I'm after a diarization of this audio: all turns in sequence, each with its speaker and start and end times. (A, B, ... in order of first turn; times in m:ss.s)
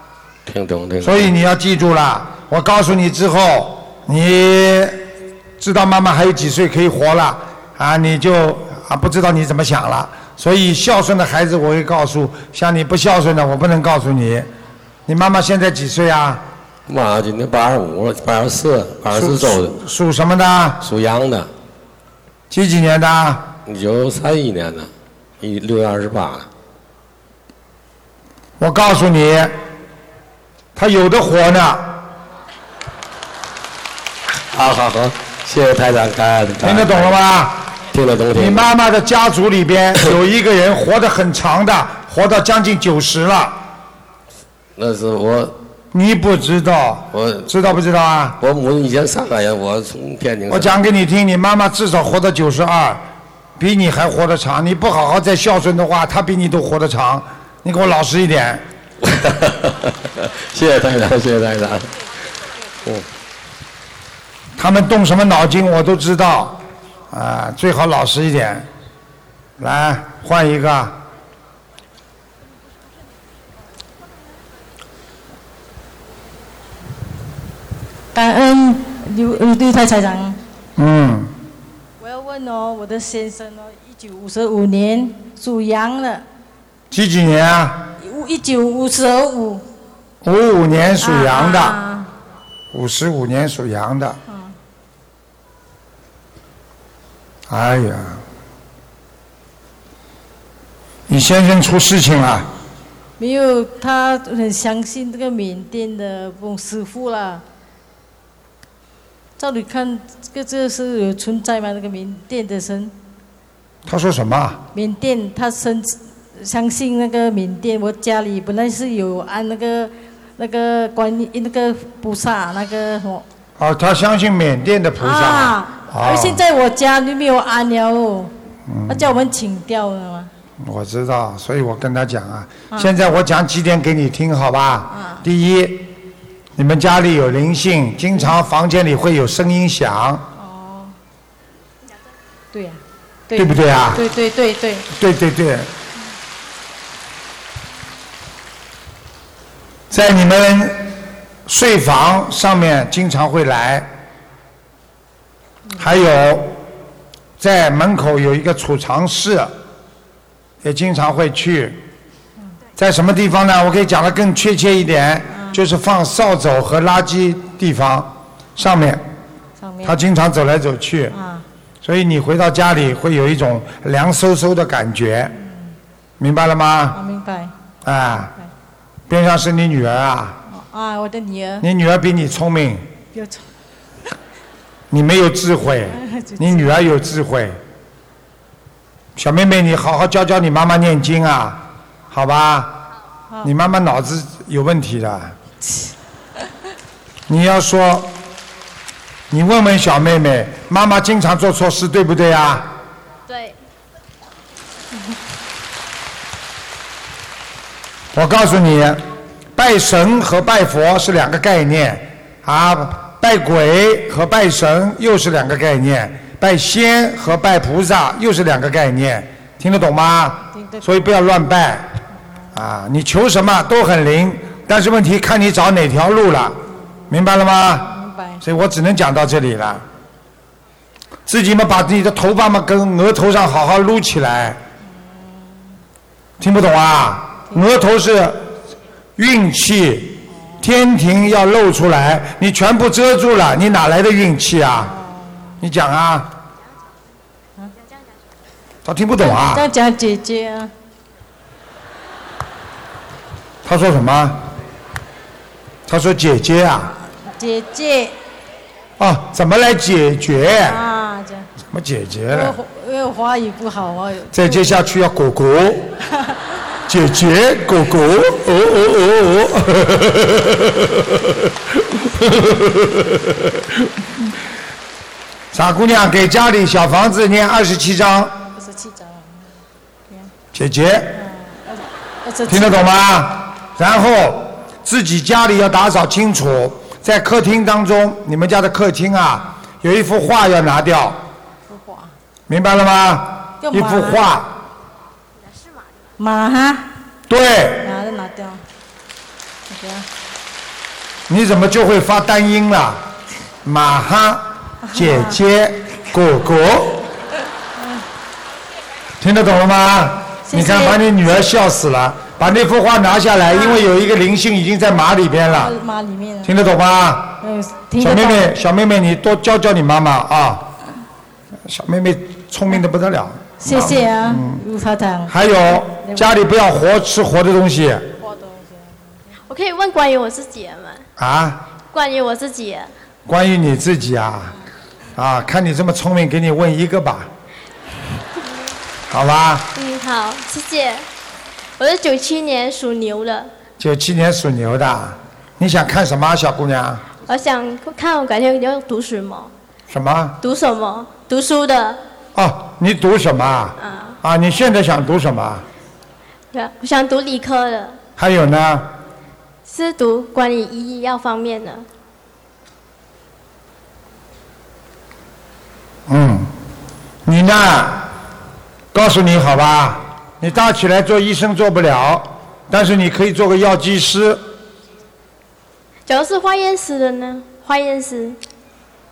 0:00.4-0:01.3 A
0:01.0-0:05.0 B
0:05.6-0:14.5 B
0:15.1-0:16.4 B
0:16.9-0:19.8 A
0:19.1-0:20.8 B
0:20.8-0:21.5 A
0:22.5-0:23.5 B
0:23.6-0:26.5 A
0:28.6-0:29.5 B
0:30.8-0:32.0 B
0:34.5-0:37.2 A
0:36.6-0:37.7 B
0:37.9-0:38.7 A
0:38.3-0:43.6 B
0:44.8-0:45.6 A
0:45.9-0:48.4 B
0:47.1-0:47.5 A
0:48.4-0:50.8 A
0:50.5-0:53.0 B
0:53.6-0:58.6 B
0:59.0-0:59.9 A
1:00.5-1:01.9 A
1:04.6-1:08.7 B
1:09.6-1:11.0 B
1:18.1-1:20.4 C
1:20.8-1:21.3 B
1:22.0-1:26.2 C
1:26.9-1:27.9 B
1:28.0-1:29.6 C
1:30.2-1:31.8 B
1:31.0-1:32.1 C
1:32.7-1:34.2 B
1:34.3-1:34.5 C
1:37.5-1:38.2 B
1:41.1-1:42.5 B
1:43.2-1:47.4 C
1:49.4-1:52.9 C
1:53.8-1:54.6 B
1:54.7-2:03.2 C
2:03.6-2:06.4 B
2:05.0-2:08.3 C
2:08.7-2:09.1 B
2:08.9-2:10.3 C
2:10.6-2:15.9 B
2:14.9-2:15.2 C
2:16.6-2:20.2 B
2:20.4-2:20.9 C
2:22.5-2:24.8 C
2:23.3-2:24.1 B
2:24.9-2:25.7 B
2:29.9-2:30.9 B
2:31.4-2:33.9 B
2:35.8-2:36.6 B
2:37.4-2:39.5 B
2:40.6-2:41.8 B
2:42.8-2:49.0 B
2:45.3-2:45.6 C
2:49.6-2:50.0 C
2:49.8-2:51.2 B
2:51.1-2:51.4 C
2:51.8-2:55.3 B
2:55.4-2:55.7 C
2:56.2-2:57.0 B
2:56.9-2:57.5 C
2:57.8-2:58.3 B
2:59.1-3:00.4 B
3:00.5-3:01.6 C
3:01.6-3:02.8 B
3:03.1-3:03.4 C
3:04.9-3:07.6 B
3:05.9-3:06.8 C
3:09.2-3:12.8 B
3:13.4-3:15.4 B
3:17.3-3:18.1 B
3:19.3-3:22.7 B
3:23.3-3:23.6 D
3:28.1-3:29.0 B
3:29.6-3:41.9 B
3:40.5-3:40.8 C
3:42.5-3:49.8 B
3:47.9-3:48.4 C
3:51.3-3:54.6 B
3:54.8-3:55.6 C
3:56.4-3:58.6 B
3:59.2-4:04.9 B
4:00.3-4:00.6 C
4:04.8-4:05.6 C
4:05.6-4:06.3 B
4:08.8-4:09.7 B
4:09.2-4:10.7 C
4:13.6-4:14.4 B
4:15.9-4:16.9 B
4:17.2-4:18.2 C
4:19.0-4:20.8 B
4:20.6-4:21.5 C
4:21.7-4:22.6 B
4:22.3-4:24.7 C
4:24.3-4:25.9 B
4:26.9-4:30.6 B
4:35.5-4:38.4 B
4:38.5-4:39.4 C
4:40.5-4:41.2 B
4:41.2-4:42.8 C
4:42.5-4:51.2 B
4:51.7-4:52.1 C
4:52.5-4:54.5 B
4:53.6-4:54.2 C
4:56.2-4:56.9 C
4:57.3-4:57.9 B
4:57.8-4:58.6 C
4:59.7-5:00.0 C
5:01.3-5:03.0 B
5:03.6-5:07.0 B
5:04.9-5:05.4 C
5:07.8-5:08.0 C
5:09.2-5:15.7 B
5:10.5-5:11.0 C
5:13.5-5:13.8 C
5:15.5-5:16.5 C
5:16.4-5:17.4 B
5:17.4-5:18.6 C
5:18.0-5:20.7 B
5:21.6-5:24.6 B
5:23.6-5:25.3 C
5:25.3-5:28.1 B
5:26.0-5:26.3 C
5:28.2-5:29.1 C
5:29.5-5:31.0 D
5:31.2-5:31.6 B
5:31.9-5:32.9 D
5:33.2-5:34.5 B
5:35.2-5:37.3 B
5:39.1-5:39.7 B
5:39.7-5:41.0 D
5:41.8-5:43.5 D
5:43.8-5:47.0 B
5:47.2-5:49.5 D
5:49.9-5:50.4 B
5:50.4-5:52.0 D
5:52.3-5:55.6 B
5:53.8-5:54.2 D
5:56.5-5:58.0 D
5:58.2-5:58.9 B
5:59.6-6:01.8 D
6:06.1-6:06.5 B
6:07.2-6:08.1 B
6:08.9-6:14.4 B
6:16.1-6:18.4 D